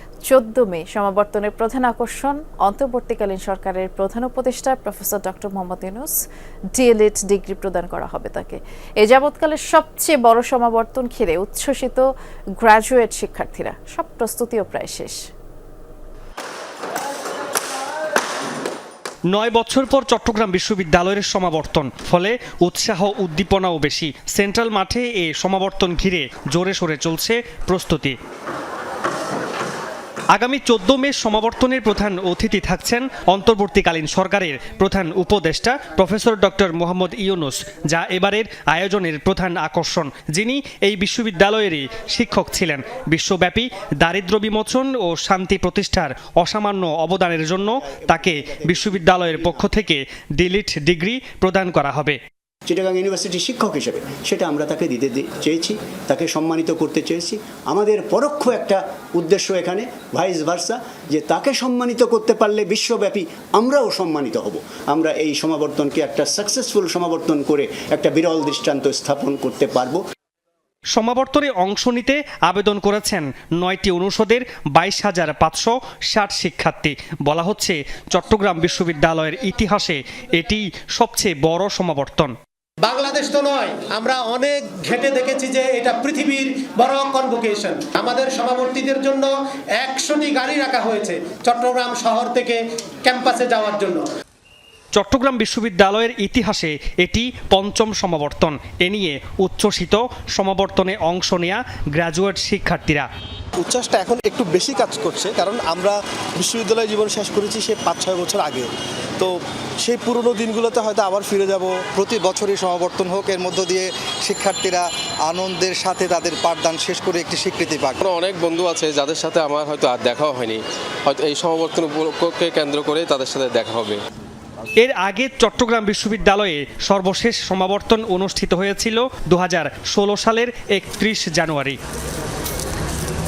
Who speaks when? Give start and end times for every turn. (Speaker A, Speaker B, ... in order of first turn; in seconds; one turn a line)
Speaker A: 0.3-6.2
Speaker A: 6.7-12.0
Speaker A: 12.6-15.2
Speaker B: 19.3-28.1
Speaker B: 30.3-52.2
Speaker C: 47.8-49.6
Speaker C: 52.7-70.0
Speaker B: 70.9-82.3
Speaker D: 82.8-94.0
Speaker B: 94.9-103.1
Speaker E: 103.6-111.9
Speaker F: 111.9-118.0
Speaker G: 118.0-124.0
Speaker B: 124.8-131.8